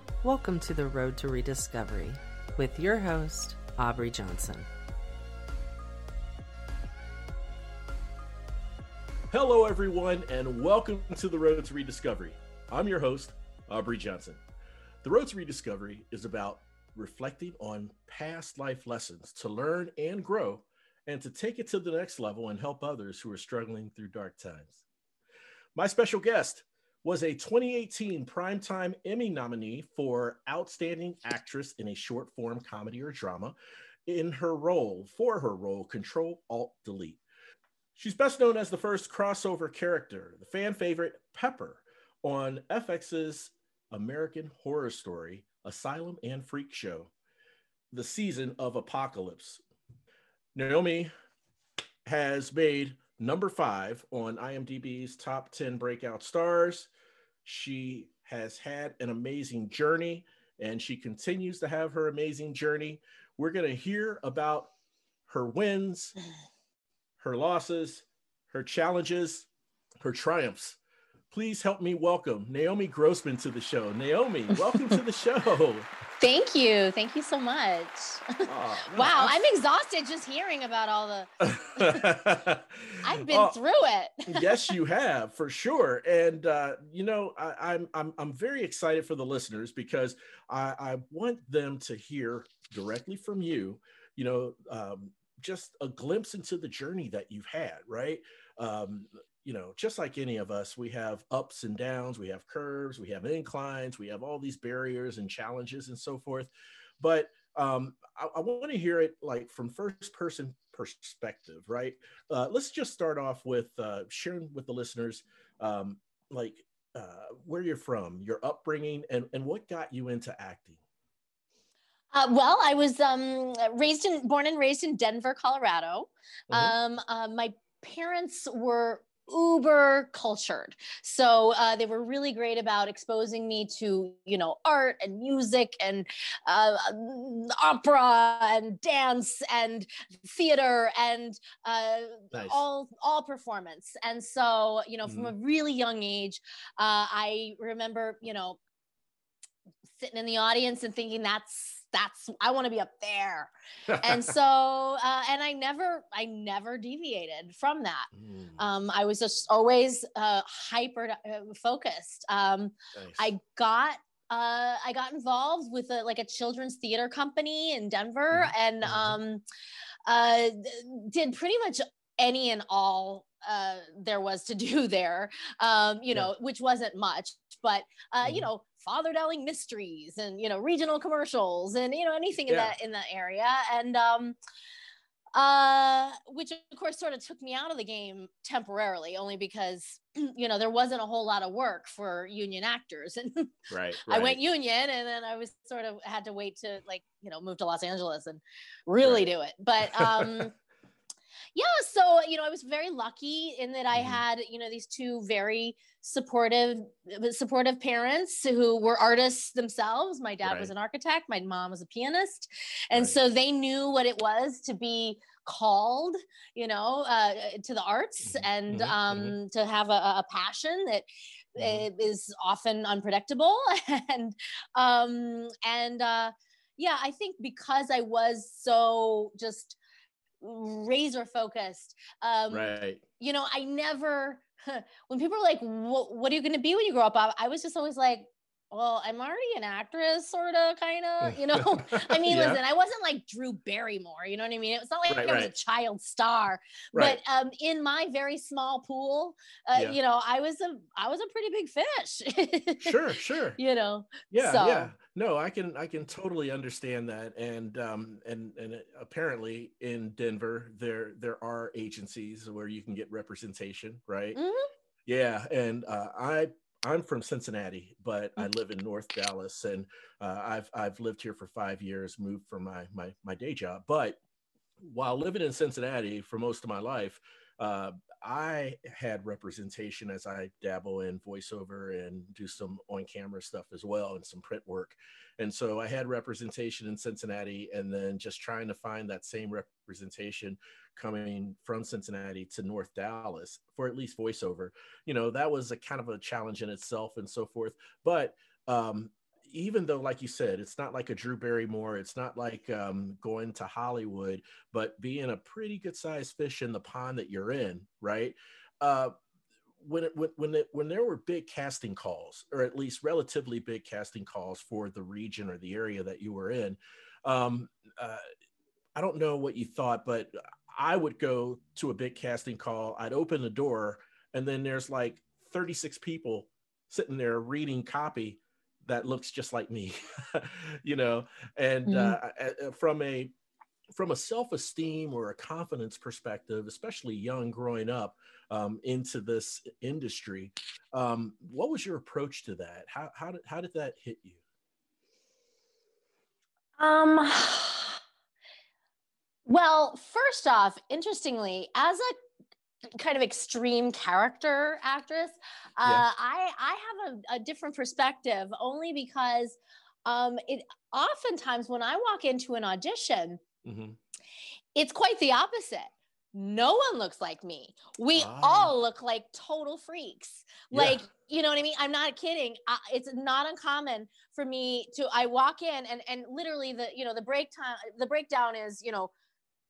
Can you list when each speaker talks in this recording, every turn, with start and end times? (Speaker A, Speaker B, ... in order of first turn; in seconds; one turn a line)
Speaker A: 0.2-4.7
Speaker B: 9.3-14.4
Speaker B: 15.0-24.8
Speaker B: 25.8-33.5
Speaker B: 34.1-37.2
Speaker B: 38.0-47.1
Speaker B: 47.9-49.6
Speaker B: 50.5-51.1
Speaker B: 52.0-56.9
Speaker B: 57.5-64.7
Speaker B: 65.3-66.2
Speaker B: 67.2-69.5
Speaker B: 70.0-70.8
Speaker B: 71.3-75.9
Speaker C: 76.2-82.0
Speaker B: 78.5-79.4
Speaker B: 81.4-83.6
Speaker C: 83.0-84.5
Speaker B: 84.3-120.8
Speaker C: 122.1-148.6
Speaker B: 142.3-142.6
Speaker B: 145.1-145.3
Speaker C: 149.9-169.4
Speaker B: 153.9-154.3
Speaker B: 158.1-158.6
Speaker B: 162.9-163.3
Speaker B: 168.3-169.2
Speaker C: 170.1-184.4
Speaker B: 178.2-178.5
Speaker B: 182.5-182.8
Speaker C: 185.3-200.5
Speaker B: 193.7-194.4
Speaker B: 199.8-200.5
Speaker C: 201.6-229.8
Speaker B: 203.9-204.2
Speaker B: 210.4-210.7
Speaker B: 218.2-219.4
Speaker B: 221.6-221.9
Speaker C: 230.4-253.0
Speaker B: 232.5-233.0
Speaker B: 241.2-242.6
Speaker B: 245.1-245.5
Speaker B: 252.8-253.6
Speaker C: 253.6-254.9
Speaker B: 254.3-264.4
Speaker C: 264.4-264.7
Speaker B: 265.1-274.2
Speaker B: 274.8-309.1
Speaker B: 309.8-318.2
Speaker B: 319.0-333.3
Speaker C: 331.9-332.2
Speaker B: 333.9-344.4
Speaker C: 346.8-348.0
Speaker C: 349.5-352.1
Speaker C: 353.0-363.4
Speaker B: 363.6-364.0
Speaker C: 364.8-379.1
Speaker B: 368.1-368.7
Speaker B: 370.7-371.0